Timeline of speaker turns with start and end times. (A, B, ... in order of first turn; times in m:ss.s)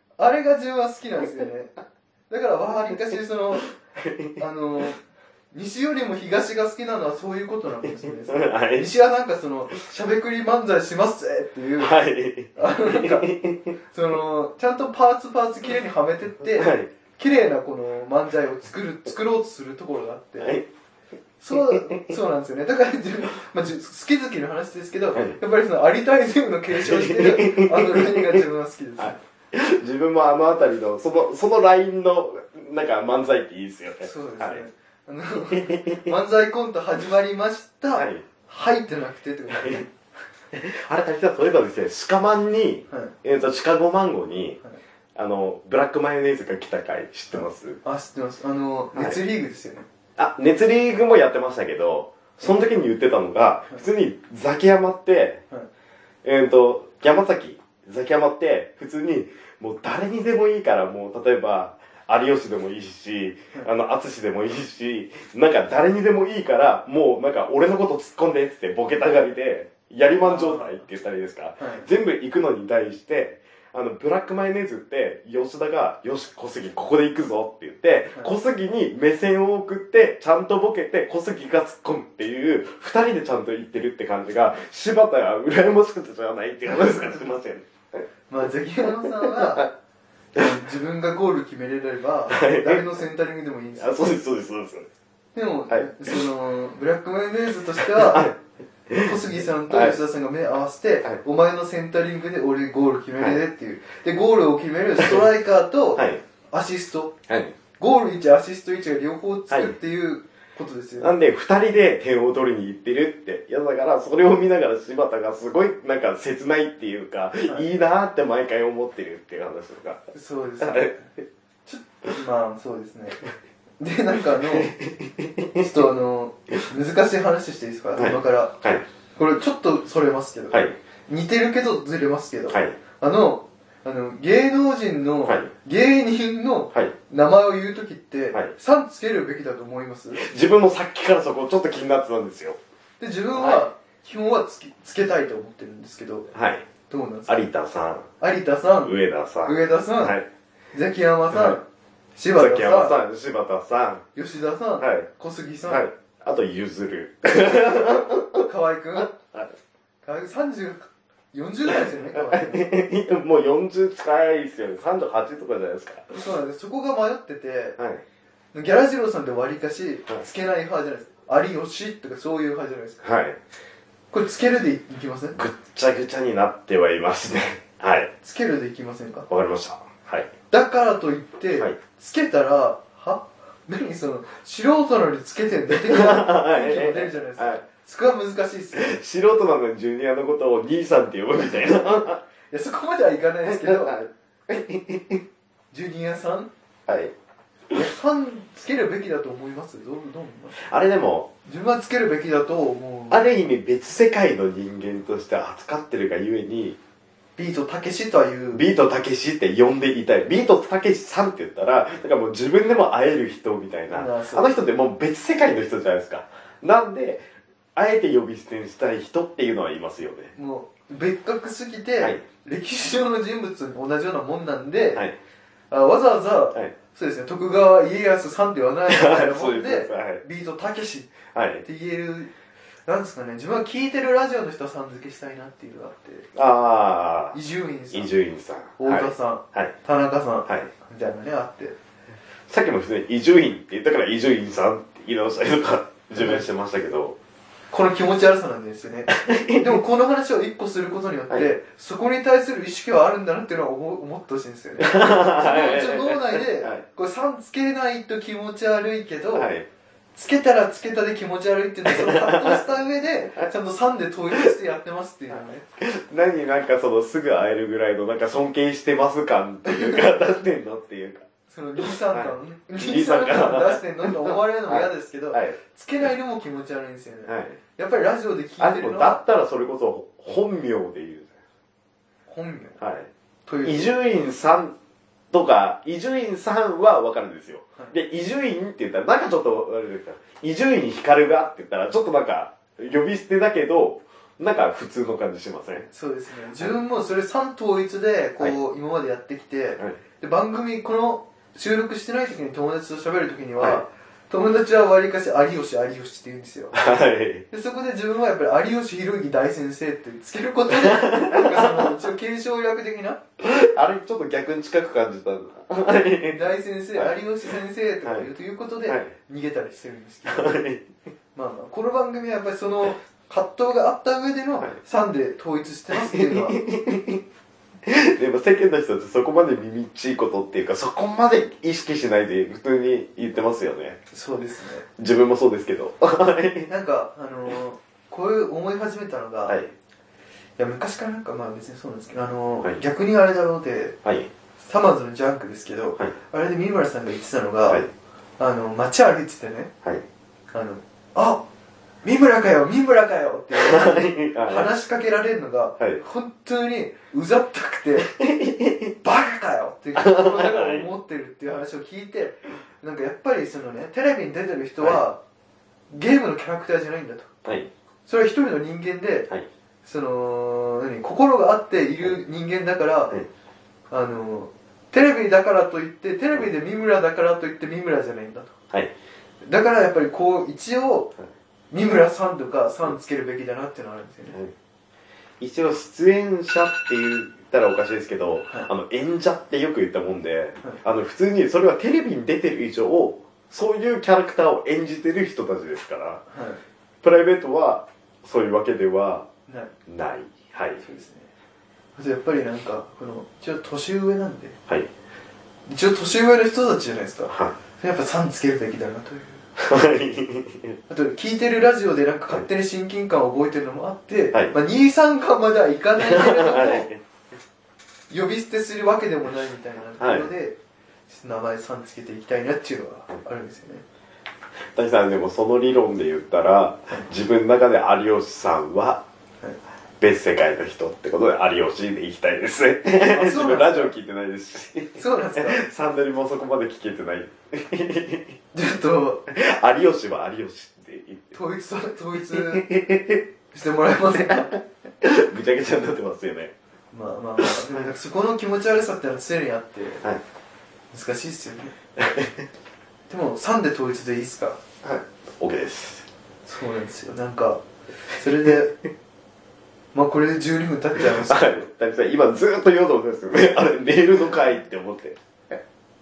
0:00.2-0:01.7 A
0:02.3-0:03.7 A
0:04.0-0:04.3 B
0:04.4-0:05.0 A
0:05.5-0:12.0 A
0:08.0-0:08.9 B
0:11.8-0:13.7 B
0:12.6-0:13.3 A
0:13.9-0:20.6 A
0:16.6-0:16.9 B
0:20.4-0:20.6 B
0:21.4-0:29.2 A
0:21.5-0:22.2 B
0:26.7-0:28.4 B
0:29.0-0:34.6 B
0:34.0-0:39.9 A
0:35.5-0:36.1 B
0:38.0-0:38.2 B
0:39.5-0:39.8 B
0:40.5-0:44.6 B
0:45.1-0:47.8 B
0:47.3-0:49.8 A
0:48.9-0:49.2 B
0:50.2-0:55.4 B
0:56.2-1:28.0 B
1:10.2-1:10.8 A
1:11.6-1:11.9 A
1:28.3-1:29.7 A
1:28.9-1:29.7 B
1:30.3-1:34.1 A
1:32.3-1:33.0 B
1:33.8-1:34.9 B
1:35.3-1:38.3 A
1:35.7-1:36.2 B
1:37.8-1:38.4 B
1:38.9-1:39.2 B
1:39.0-1:47.2 A
1:39.7-1:40.0 B
1:45.0-1:45.3 B
1:47.3-1:47.6 B
1:47.8-1:51.1 A
1:49.5-1:49.8 B
1:51.0-2:00.0 B
2:00.1-2:01.1 A
2:00.6-2:01.2 B
2:01.6-2:03.2 A
2:03.8-2:04.7 A
2:04.4-2:05.7 B
2:05.5-2:08.6 A
2:08.0-2:08.8 B
2:09.2-2:20.2 A
2:12.5-2:12.8 B
2:20.1-2:22.6 B
2:23.0-2:26.3 A
2:23.3-2:23.6 B
2:26.3-2:26.7 B
2:26.9-2:27.4 A
2:27.3-2:28.1 B
2:28.2-2:30.2 A
2:28.8-2:30.3 B
2:30.7-2:31.6 A
2:31.3-2:31.6 B
2:32.2-2:33.0 A
2:32.4-2:34.0 B
2:34.1-2:35.8 A
2:34.8-2:35.1 B
2:35.7-2:39.5 B
2:38.4-2:39.1 A
2:40.0-2:42.7 A
2:41.7-2:46.2 B
2:46.1-2:47.8 A
2:47.8-2:48.0 B
2:48.5-2:53.1 A
2:53.0-2:53.4 B
2:54.1-2:55.4 A
2:55.3-2:58.1 B
2:58.2-2:59.2 A
2:59.3-3:00.3 B
3:00.5-3:09.0 A
3:05.7-3:07.6 B
3:08.8-3:12.2 B
3:12.5-3:13.9 A
3:13.4-3:15.2 B
3:15.7-3:16.5 A
3:16.9-3:17.1 B
3:17.7-3:20.6 A
3:20.5-3:21.3 B
3:21.4-3:23.3 A
3:23.1-3:26.8 B
3:27.4-3:28.6 A
3:28.5-3:40.3 B
3:33.9-3:34.6 A
3:40.3-3:45.0 A
3:45.7-3:51.1 A
3:48.9-3:50.2 B
3:51.3-3:51.6 B
3:51.6-3:52.3 A
3:52.8-3:56.3 A
3:56.3-3:57.4 B
3:57.3-3:58.1 A
3:57.9-3:59.7 B
3:58.8-4:01.8 A
4:00.4-4:00.7 B
4:02.5-4:07.2 B
4:06.2-4:06.4 A
4:07.7-4:19.5 A
4:09.1-4:09.8 B
4:14.8-4:16.8 B
4:19.3-4:19.6 B
4:20.1-4:25.6 A
4:21.8-4:22.6 B
4:25.3-4:31.2 B
4:29.6-4:30.1 A
4:31.5-4:39.2 A
4:32.0-4:35.6 B
4:37.3-4:37.6 B
4:38.6-4:41.4 B
4:42.3-4:42.8 A
4:42.8-4:43.1 B
4:43.5-4:43.9 A
4:43.6-4:44.7 B
4:45.3-4:55.9 B
4:55.9-5:06.8 A
5:03.6-5:03.8 B
5:06.7-5:07.4 B
5:07.5-5:13.2 A
5:10.7-5:11.9 B
5:13.4-5:16.4 B
5:16.2-5:20.6 A
5:18.9-5:19.1 B
5:20.2-5:20.9 B
5:21.3-5:26.6 A
5:25.9-5:27.2 B
5:27.8-5:34.0 B
5:34.1-5:34.8 A
5:35.0-5:36.7 B
5:36.7-5:39.6 A
5:40.6-5:44.0 A
5:44.0-5:44.3 B
5:44.6-5:47.8 A
5:48.4-5:49.7 A
5:50.5-5:51.4 A
5:52.0-5:58.1 A
5:53.5-5:54.7 B
5:58.0-5:58.9 B
5:59.0-6:05.2 A
5:59.9-6:00.9 B
6:05.9-6:07.3 A
6:07.4-6:07.7 B
6:08.1-6:09.3 A
6:09.8-6:13.2 A
6:13.9-6:18.5 A
6:19.4-6:21.1 A
6:21.7-6:24.4 A
6:25.4-6:36.2 B
6:36.3-6:36.6 A
6:37.0-6:39.3 B
6:39.5-6:39.7 A
6:39.9-6:40.8 B
6:40.8-6:41.3 A
6:42.0-6:44.6 A
6:45.6-6:49.4 A
6:47.3-6:47.6 B
6:49.6-6:50.8 B
6:50.9-6:56.9 A
6:56.0-6:57.0 B
6:58.1-7:00.6 A
7:00.0-7:00.3 B
7:01.1-7:03.8 A
7:04.7-7:09.0 B
7:10.0-7:18.4 B
7:13.0-7:13.9 A
7:15.0-7:15.6 A
7:18.5-7:19.2 A
7:19.3-7:21.4 B
7:21.3-7:22.7 A
7:22.3-7:23.2 B
7:23.5-7:24.6 A
7:24.2-7:26.5 B
7:26.9-7:30.0 A
7:27.4-7:27.9 B
7:30.9-7:31.7 A
7:32.0-7:32.4 B
7:33.1-7:34.6 A
7:34.8-7:36.0 B
7:36.4-7:38.7 A
7:39.9-7:41.5 A
7:41.0-7:45.6 B